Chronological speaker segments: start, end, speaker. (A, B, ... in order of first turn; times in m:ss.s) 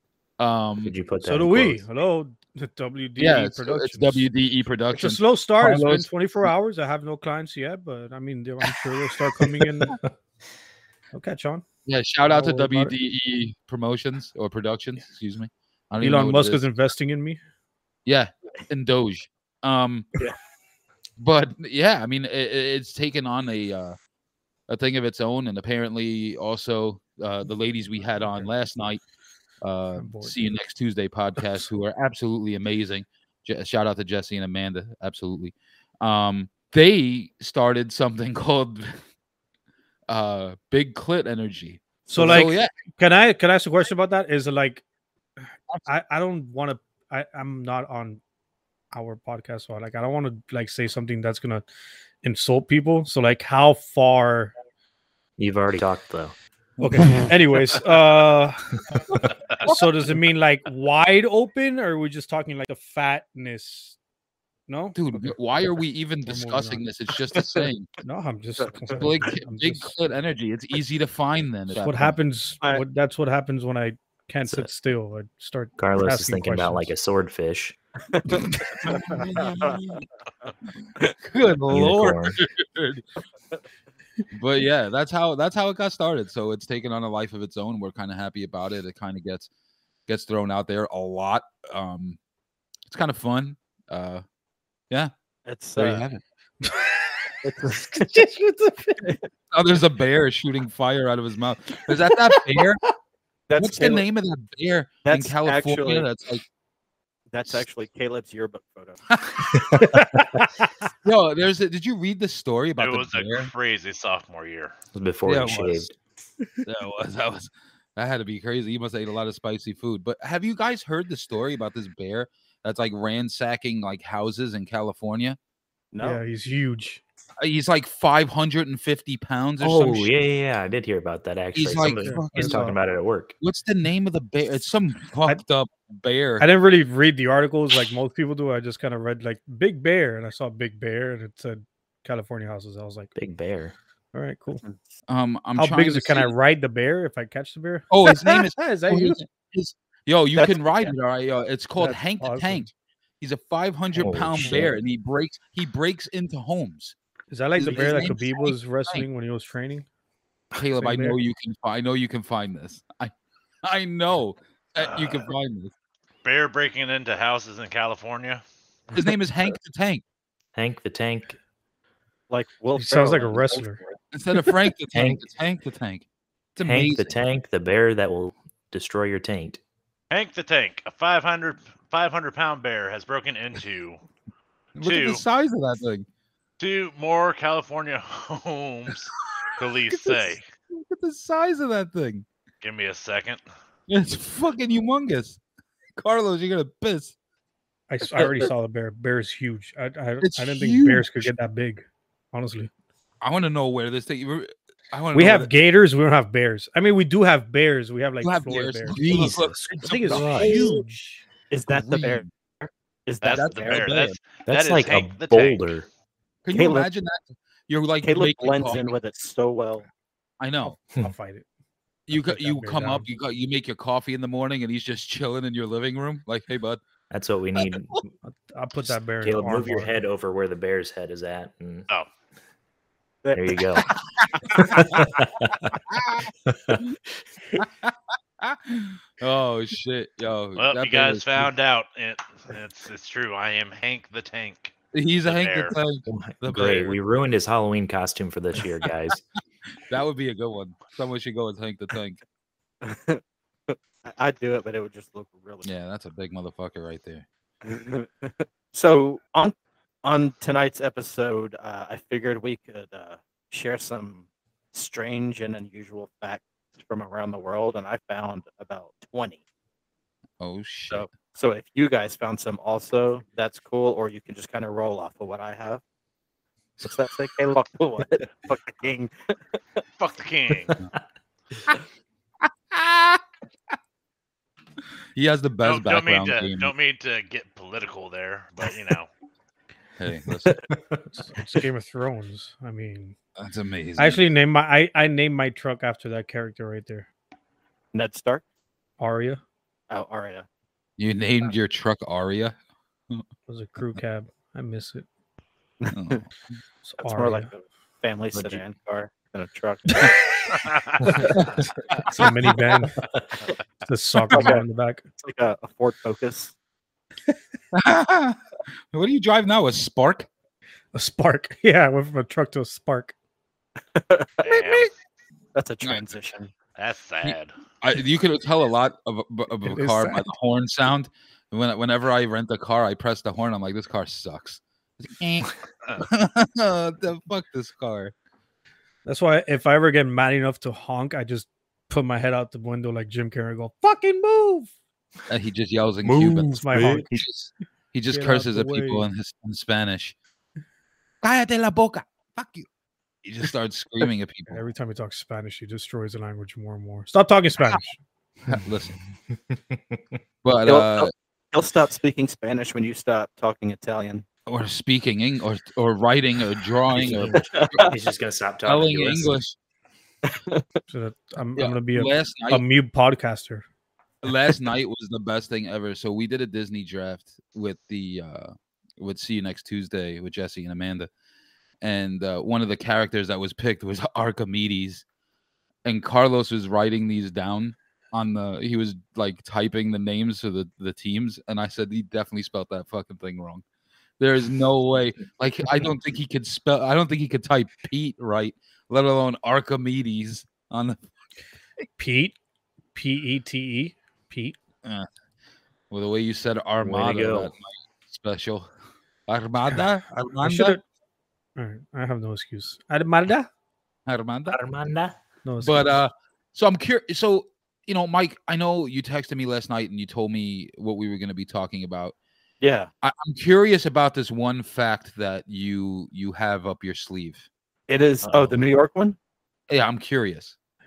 0:00.4-0:00.9 A
0:00.8-0:01.8 B
0:01.2-0:04.2 C
0:03.2-0:06.5 A
0:04.9-0:10.0 C
0:11.1-0:11.6 C
0:11.8-0:16.6 A
0:12.3-0:12.9 C
0:16.0-0:17.4 C
0:18.0-0:20.1 A
0:21.2-0:24.0 A
0:24.7-0:29.0 A
0:29.6-0:39.0 A
0:30.0-0:30.4 C
0:40.1-0:42.7 A
0:42.1-0:42.5 D
0:42.1-0:44.8 C
0:45.8-0:48.2 C
0:48.9-0:51.6 C
0:52.2-0:54.5 C
0:55.4-0:56.4 B
0:56.8-0:57.3 A
0:56.8-0:58.7 C
0:59.7-1:04.0 C
1:04.7-1:05.3 C
1:04.9-1:07.9 A
1:06.2-1:06.8 C
1:08.0-1:09.9 C
1:08.9-1:12.2 A
1:11.8-1:16.9 C
1:15.8-1:17.8 B
1:18.1-1:19.8 D
1:18.6-1:20.0 A
1:21.2-1:23.0 A
1:21.7-1:22.4 B
1:24.3-1:29.5 A
1:30.1-1:32.2 A
1:32.9-1:34.2 A
1:35.4-1:36.0 D
1:35.8-1:36.2 A
1:36.6-1:37.1 C
1:37.4-1:38.1 D
1:37.9-1:39.0 C
1:39.5-1:42.8 A
1:41.9-1:42.4 C
1:43.5-1:44.0 D
1:43.6-1:46.4 A
1:45.0-1:46.1 D
1:47.3-1:49.0 D
1:49.1-1:49.8 A
1:49.5-1:49.8 B
1:49.8-1:50.7 C
1:51.0-1:53.5 A
1:52.8-1:54.7 E
1:54.9-1:56.0 B
1:55.2-1:55.9 A
1:56.6-2:05.4 A
2:05.9-2:06.2 D
2:06.0-2:07.0 C
2:07.4-2:10.1 A
2:09.6-2:13.3 B
2:11.5-2:12.7 A
2:12.0-2:12.8 C
2:13.4-2:16.5 A
2:16.4-2:23.1 C
2:23.2-2:23.7 B
2:24.1-2:24.6 C
2:24.6-2:25.0 D
2:25.1-2:26.3 A
2:25.6-2:29.2 C
2:27.9-2:32.7 A
2:30.4-2:30.9 D
2:31.8-2:32.7 C
2:33.2-2:36.9 A
2:33.9-2:34.7 B
2:37.3-2:39.8 C
2:37.6-2:39.0 A
2:37.7-2:38.1 D
2:40.5-2:45.7 A
2:40.8-2:41.2 C
2:44.8-2:45.3 E
2:46.2-2:48.4 E
2:48.9-2:50.0 A
2:50.5-2:51.4 B
2:52.3-2:54.0 D
2:52.8-2:53.8 C
2:54.1-2:57.1 A
2:54.9-2:55.2 B
2:56.6-2:59.6 B
3:00.1-3:04.0 E
3:04.8-3:06.0 A
3:04.8-3:05.2 E
3:06.6-3:10.5 E
3:09.9-3:12.2 A
3:12.6-3:13.4 E
3:13.9-3:15.4 A
3:16.0-3:17.1 A
3:17.9-3:22.7 C
3:18.2-3:18.4 A
3:20.2-3:21.3 A
3:23.2-3:25.5 A
3:25.1-3:31.2 C
3:28.2-3:30.8 A
3:28.9-3:30.8 B
3:31.5-3:34.0 D
3:31.6-3:32.3 A
3:33.2-3:35.8 E
3:33.3-3:34.2 A
3:34.4-3:35.8 B
3:36.4-3:38.9 A
3:36.5-3:36.9 D
3:38.0-3:39.9 D
3:40.4-3:40.8 A
3:40.6-3:41.4 C
3:42.1-3:46.8 A
3:42.1-3:43.0 C
3:47.1-3:48.1 B
3:48.2-3:49.9 C
3:48.9-3:51.9 B
3:53.2-3:53.6 D
3:53.3-3:53.9 B
3:54.4-3:54.6 D
3:54.5-3:55.8 B
3:55.9-3:57.0 A
3:56.4-3:56.8 B
3:57.6-4:01.5 A
4:00.6-4:05.8 E
4:04.9-4:07.0 A
4:06.1-4:09.2 B
4:09.9-4:12.2 A
4:12.8-4:15.7 D
4:15.6-4:17.2 A
4:17.6-4:29.4 D
4:30.4-4:31.0 A
4:30.9-4:35.8 D
4:36.8-4:39.8 D
4:40.0-4:40.8 E
4:42.4-4:43.2 A
4:45.1-4:46.7 A
4:45.6-4:49.1 E
4:50.0-4:50.6 A
4:50.6-4:51.0 B
4:51.1-4:53.1 C
4:53.4-4:54.2 A
4:54.0-4:57.1 C
4:57.9-4:58.4 D
4:59.0-4:59.4 C
4:59.9-5:00.4 D
5:01.0-5:02.6 A
5:03.5-5:05.0 C
5:05.8-5:06.2 D
5:05.9-5:06.3 A
5:06.8-5:07.5 C
5:07.0-5:10.4 D
5:08.3-5:08.6 B
5:11.2-5:11.6 D
5:11.4-5:12.2 A
5:12.1-5:13.0 C
5:13.8-5:15.0 C
5:14.3-5:14.6 D
5:15.2-5:16.5 D
5:17.7-5:18.4 A
5:18.9-5:20.3 A
5:20.9-5:23.1 C
5:23.9-5:24.8 D
5:24.4-5:24.9 E
5:25.5-5:26.5 D
5:26.8-5:27.5 E
5:27.2-5:38.1 A
5:29.6-5:30.2 C
5:39.0-5:44.7 C
5:45.3-5:50.2 A
5:46.0-5:47.0 B
5:46.5-5:47.1 C
5:48.1-5:49.1 C
5:51.2-5:52.7 A
5:53.2-5:54.6 A
5:54.5-5:58.0 C
5:58.4-5:59.0 A
5:59.5-6:00.0 B
6:00.4-6:01.1 A
6:00.6-6:04.2 D
6:04.5-6:07.8 A
6:06.9-6:09.4 B
6:07.5-6:07.9 D
6:08.6-6:09.6 A
6:10.2-6:10.6 D
6:10.9-6:13.6 C
6:11.6-6:12.6 A
6:14.2-6:21.1 A
6:21.8-6:25.0 A
6:25.8-6:33.6 A
6:34.2-6:41.0 A
6:42.0-6:42.4 C
6:42.9-6:44.6 C
6:45.9-6:48.7 A
6:46.8-6:47.5 B
6:49.3-6:50.8 A
6:50.4-6:50.8 C
6:51.6-6:53.5 C
6:54.0-6:54.6 A
6:54.5-6:55.2 B
6:55.4-6:55.9 C
6:55.6-7:02.1 A
7:02.6-7:02.9 D
7:03.0-7:07.4 A
7:07.9-7:09.2 D
7:08.2-7:08.6 A
7:09.7-7:10.5 A